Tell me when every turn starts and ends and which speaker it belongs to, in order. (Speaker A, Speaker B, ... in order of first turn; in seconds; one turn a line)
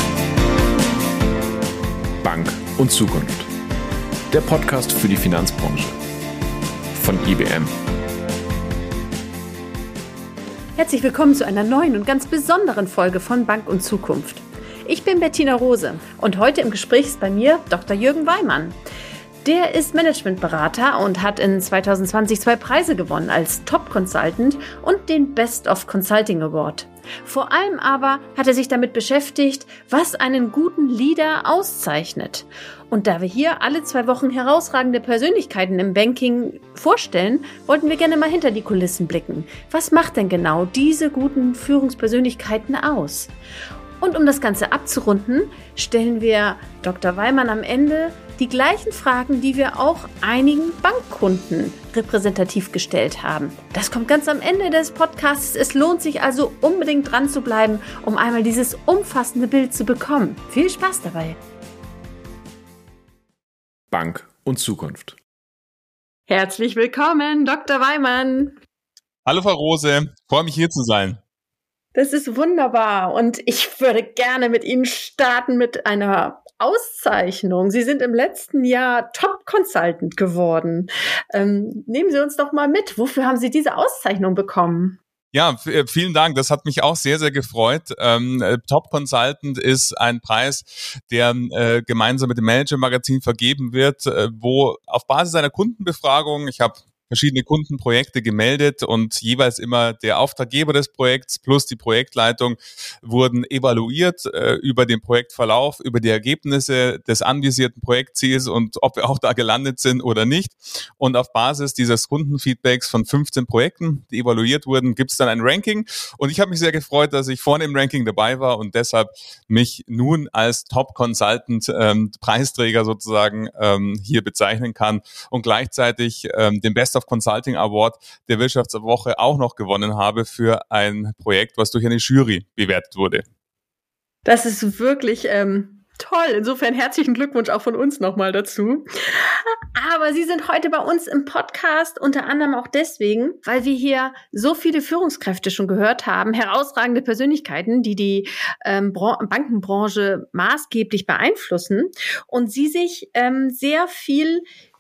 Speaker A: 2.2-3.5
Speaker A: 4.3-6.0
Speaker A: 6.9-7.7
Speaker B: 10.8-18.8
Speaker B: 19.4-43.3
Speaker B: 44.0-61.4
Speaker A: 63.9-65.2
Speaker B: 66.3-68.6
Speaker C: 69.3-71.2
Speaker B: 72.0-85.0
Speaker C: 85.3-133.2
Speaker B: 134.2-154.4